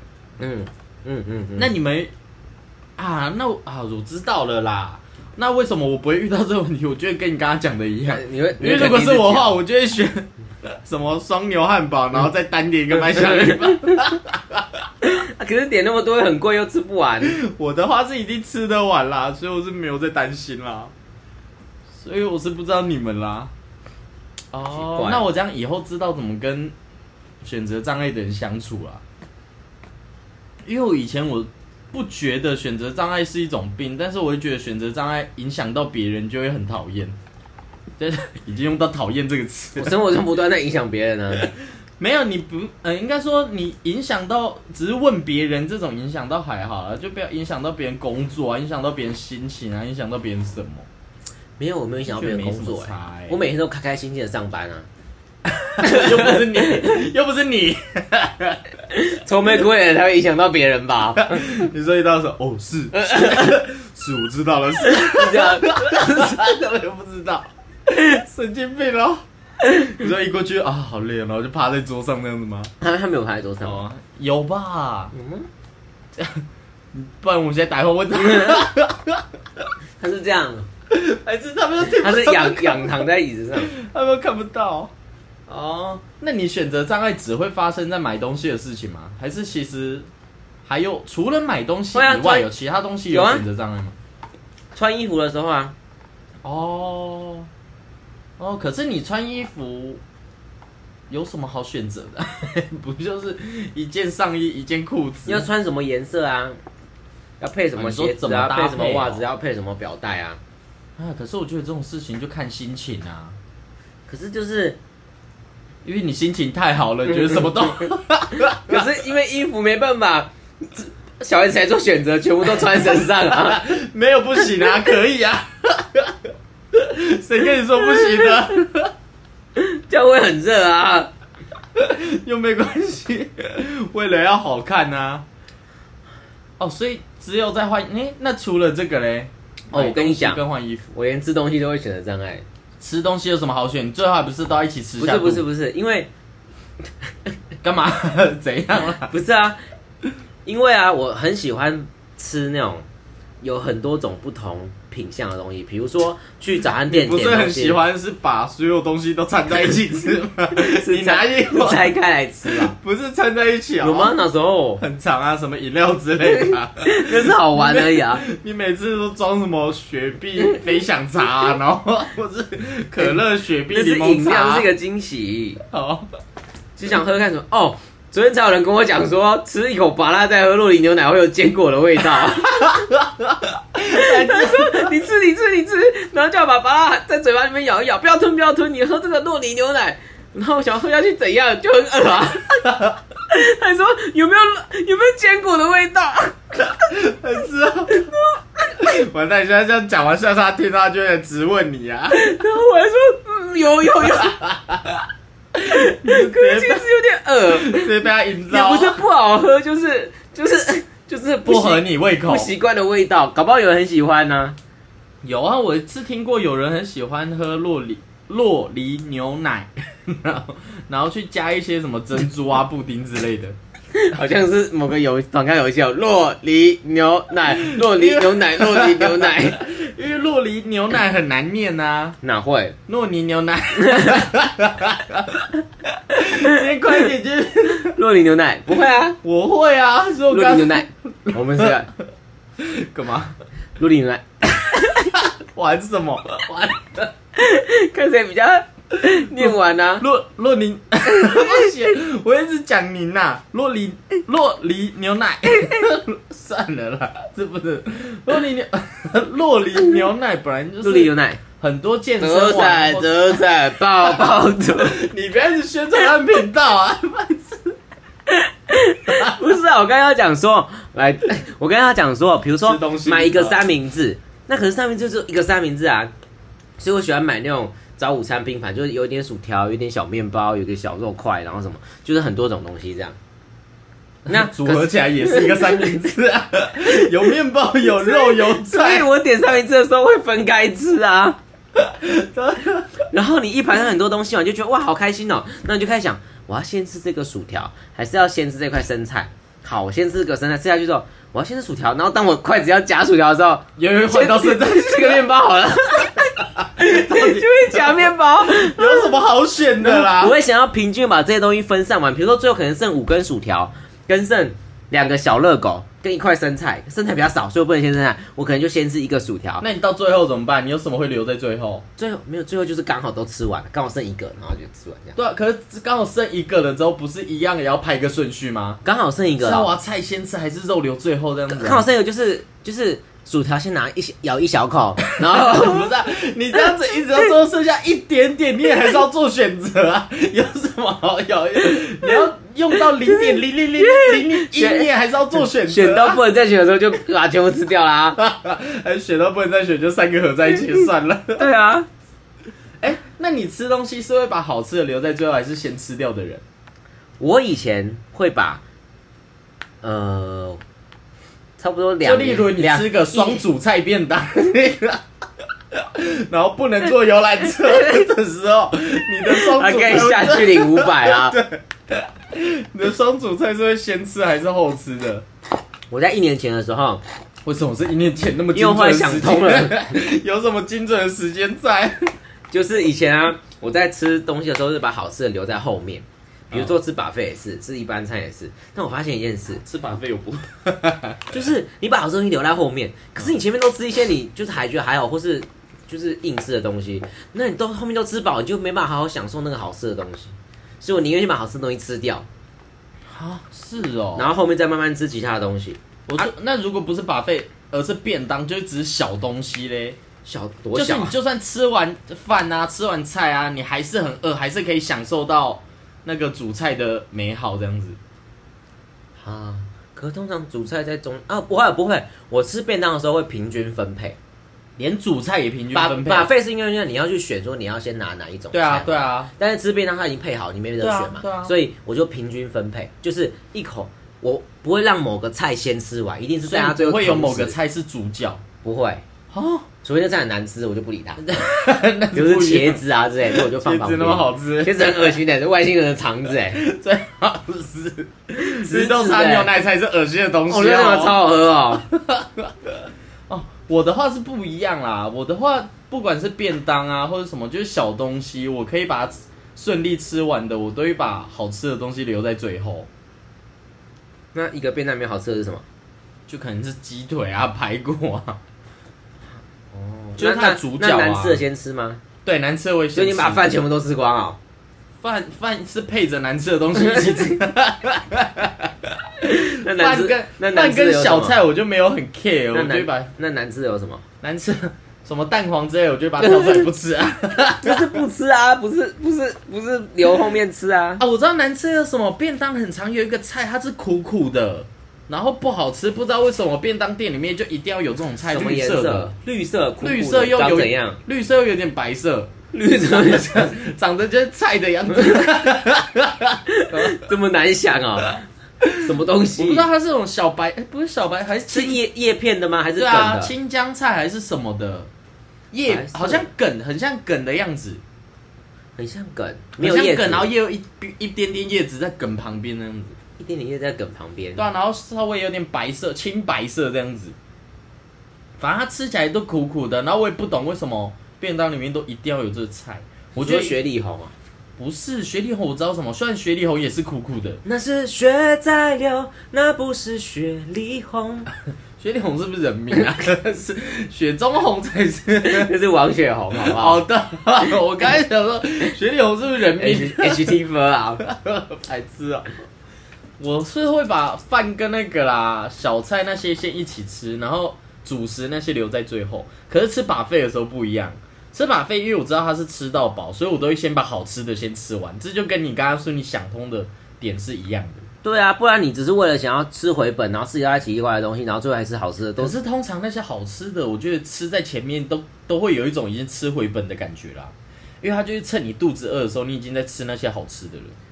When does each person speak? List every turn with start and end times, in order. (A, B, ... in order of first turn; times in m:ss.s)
0:00.4-0:01.7 A
0:01.6-0:02.1 B
0:03.0-0:14.9 B
0:08.1-0:09.5 A
0:13.3-0:13.8 A
0:15.0-0:17.4 A
0:17.2-0:20.9 B
0:21.9-0:23.5 B
0:24.5-0:26.7 B
0:24.7-0:25.2 A
0:27.4-0:29.0 B
0:30.6-0:37.2 B
0:38.0-0:40.0 B
0:39.8-0:41.5 A
0:42.0-0:50.9 B
0:51.6-0:54.9 A
0:52.1-0:53.4 B
0:55.4-0:58.6 B
0:55.8-0:56.9 A
0:58.9-1:01.4 A
1:01.2-1:09.2 B
1:02.9-1:03.6 A
1:04.8-1:06.5 A
1:09.8-1:12.7 B
1:12.8-1:13.8 A
1:13.6-1:15.1 B
1:15.1-1:15.5 A
1:16.2-1:19.7 B
1:18.2-1:18.7 A
1:20.0-1:20.7 A
1:20.9-1:23.0 B
1:22.0-1:23.7 A
1:23.6-1:24.9 B
1:25.5-1:30.1 B
1:30.6-1:33.9 B
1:31.9-1:32.5 A
1:33.1-1:33.4 A
1:34.8-1:35.8 A
1:36.4-1:37.5 B
1:38.4-1:40.0 B
1:41.1-1:45.5 B
1:45.2-1:46.6 A
1:47.4-1:50.4 A
1:47.8-1:49.2 B
1:51.0-1:53.4 B
1:54.1-1:54.8 A
1:55.8-1:58.9 B
1:57.1-1:57.9 A
1:58.4-2:03.6 A
2:02.8-2:06.2 B
2:06.7-2:08.9 B
2:09.6-2:11.1 A
2:11.8-2:15.2 B
2:16.6-2:20.9 B
2:19.7-2:20.4 A
2:20.9-2:22.4 A
2:22.8-2:25.4 B
2:25.0-2:26.1 A
2:27.6-2:29.1 B
2:29.1-2:29.6 A
2:30.4-2:32.8 A
2:33.4-2:37.8 A
2:36.9-2:44.2 B
2:40.5-2:42.8 A
2:43.8-2:44.8 A
2:44.8-2:54.7 B
2:46.3-2:48.2 A
2:53.7-2:55.6 A
2:55.7-2:56.1 B
2:56.8-3:02.8 A
3:02.6-3:04.9 B
3:03.9-3:12.6 A
3:12.7-3:12.9 B
3:13.3-3:16.7 A
3:16.6-3:18.1 B
3:17.9-3:18.4 A
3:18.7-3:22.2 B
3:22.1-3:24.4 A
3:24.0-3:25.0 B
3:25.6-3:26.8 B
3:25.6-3:27.9 A
3:27.5-3:29.0 B
3:28.5-3:34.6 A
3:31.4-3:32.5 B
3:35.2-3:43.6 B
3:43.9-3:49.6 A
3:47.5-3:52.2 B
3:52.2-3:52.8 A
3:52.9-3:58.0 B
3:53.8-3:54.2 A
3:56.3-3:56.6 A
3:57.8-3:59.2 A
3:59.2-4:01.8 B
4:00.3-4:01.9 A
4:02.6-4:03.4 B
4:03.8-4:05.1 A
4:05.1-4:06.8 B
4:06.5-4:10.0 A
4:09.1-4:27.8 B
4:11.1-4:11.7 A
4:20.8-4:21.4 A
4:22.2-4:25.0 A
4:28.3-4:36.1 A
4:29.1-4:29.4 B
4:32.6-4:33.6 B
4:36.8-4:43.2 A
4:44.2-4:49.1 B
4:44.3-4:46.0 A
4:47.9-4:51.4 A
4:51.8-4:52.9 B
4:53.1-5:09.1 A
5:03.8-5:05.3 B
5:06.0-5:10.4 B
5:09.8-5:19.6 A
5:19.6-5:21.8 B
5:22.0-5:25.2 A
5:25.2-5:28.8 B
5:28.8-5:29.7 A
5:29.4-5:31.8 B
5:31.5-5:35.9 A
5:35.2-5:46.2 B
5:42.8-5:48.2 A
5:48.2-5:51.5 B
5:51.4-5:51.9 A
5:52.8-5:56.4 B
5:57.2-5:58.6 A
5:59.8-6:00.6 A
6:01.6-6:03.4 A
6:02.0-6:05.0 B
6:05.7-6:15.2 B
6:09.2-6:11.4 A
6:15.9-6:17.0 A
6:17.4-6:22.1 B
6:18.5-6:20.0 A
6:22.5-6:29.6 A
6:29.6-6:31.3 B
6:31.3-6:42.3 A
6:43.1-6:44.3 B
6:44.2-6:45.8 A
6:46.1-6:50.0 B
6:50.2-6:51.1 A
6:50.8-6:58.0 B
6:59.2-7:04.2 A
7:04.8-7:06.3 B
7:05.7-7:17.5 A
7:08.5-7:09.3 B
7:10.8-7:11.5 B
7:16.4-7:18.4 B
7:18.6-7:19.0 A
7:19.3-7:19.7 B
7:19.8-7:21.4 A
7:21.3-7:25.2 B
7:22.1-7:26.6 A
7:26.5-7:31.2 B
7:28.4-7:29.5 A
7:30.5-7:31.8 A
7:31.8-7:42.9 B
7:44.3-7:45.6 A
7:46.3-7:48.4 B
7:49.7-7:52.0 A
7:50.2-7:51.4 B
7:52.2-7:53.5 B
7:52.9-7:54.4 A
7:55.0-8:03.1 B
7:59.3-8:01.4 A
8:02.5-8:04.0 A
8:04.2-8:07.9 B
8:06.2-8:06.6 A
8:07.6-8:11.0 A
8:11.0-8:19.1 B
8:18.3-8:21.0 A
8:19.8-8:22.3 B
8:22.5-8:23.5 A
8:22.9-8:27.0 B
8:26.5-8:28.2 A
8:28.8-8:29.7 A
8:29.4-8:31.8 B
8:31.5-8:33.3 A
8:32.8-8:34.9 B
8:35.5-8:37.8 B
8:35.7-8:36.3 A
8:38.8-8:40.3 A
8:39.6-8:43.0 B
8:43.2-8:44.4 A
8:44.4-8:47.2 B
8:48.4-8:53.6 B
8:53.2-8:54.1 A
8:54.6-8:57.4 B
8:57.4-9:01.3 A
9:01.8-9:05.5 B
9:05.2-9:06.8 A
9:06.4-9:10.4 B
9:09.6-9:11.0 A
9:11.0-9:12.3 B
9:13.2-9:27.8 B
9:28.0-9:32.3 A
9:32.2-9:40.8 B